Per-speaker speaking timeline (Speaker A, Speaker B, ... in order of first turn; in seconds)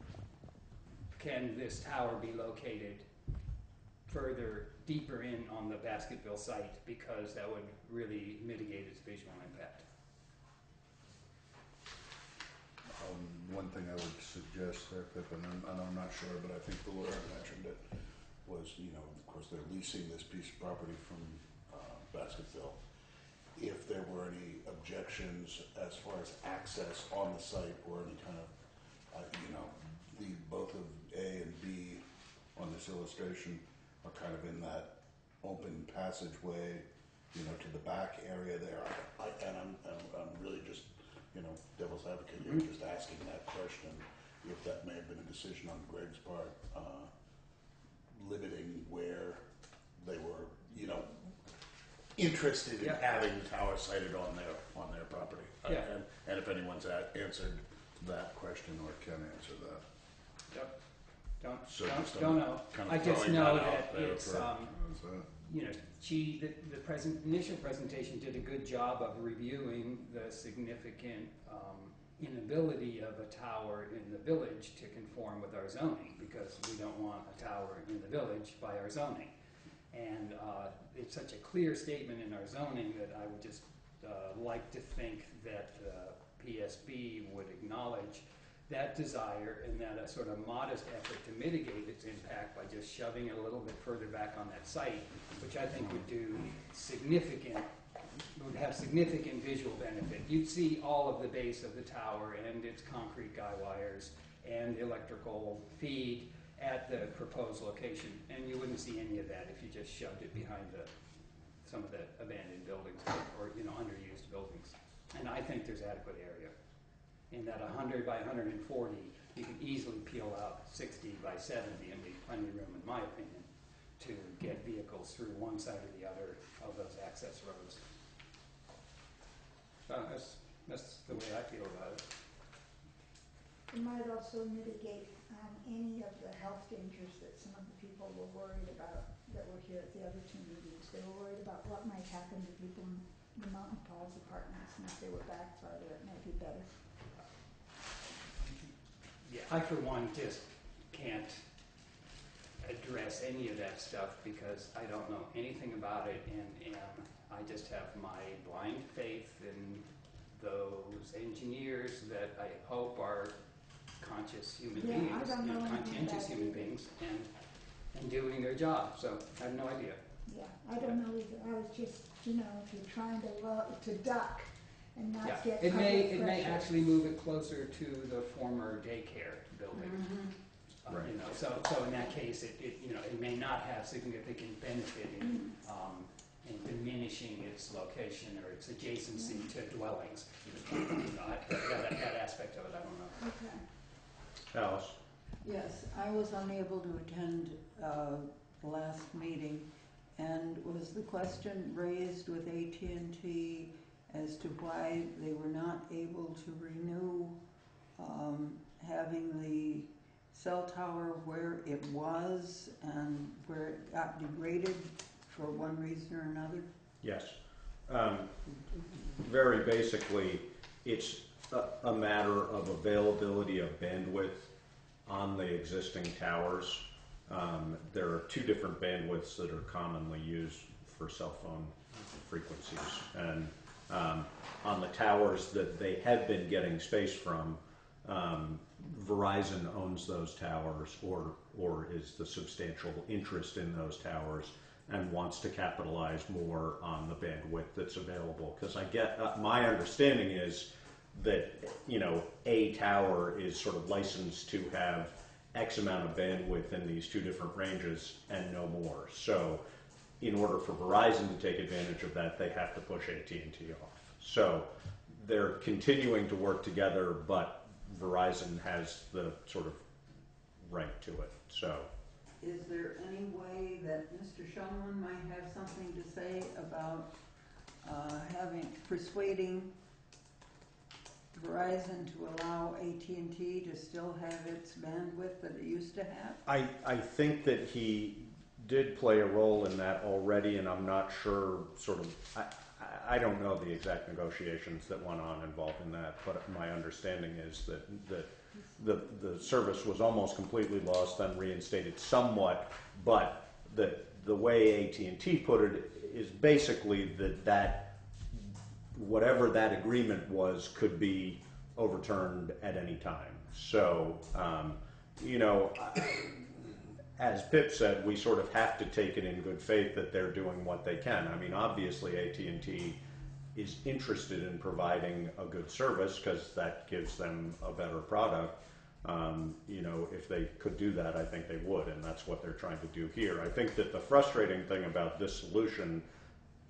Speaker A: 1.1-3.0, 4.1-9.8, 61.4-64.8, 65.4-79.3, 79.9-97.7, 98.3-110.9, 111.6-116.5, 117.3-127.8, 129.9-132.0, 148.4-148.7, 149.2-151.4, 152.6-163.3, 164.0-167.3, 167.9-170.0, 175.2-180.0, 180.8-193.2
Speaker B: 12.9-17.8, 18.4-22.8, 23.6-28.5, 29.1-32.0, 32.5-47.1, 48.1-49.4, 50.0-51.1, 52.1-59.8, 61.7-65.2
Speaker C: 133.7-146.7, 164.8-166.7, 170.3-176.7, 185.2-185.5, 193.2-193.6
Speaker D: 179.7-180.3, 195.4-207.4, 208.0-216.7, 272.4-277.1, 277.8-279.7, 281.3-286.4
Speaker E: 194.5-195.0, 217.0-217.4, 217.9-224.4, 225.1-259.6, 260.2-269.8, 270.6-271.9, 286.4-323.0, 323.5-336.0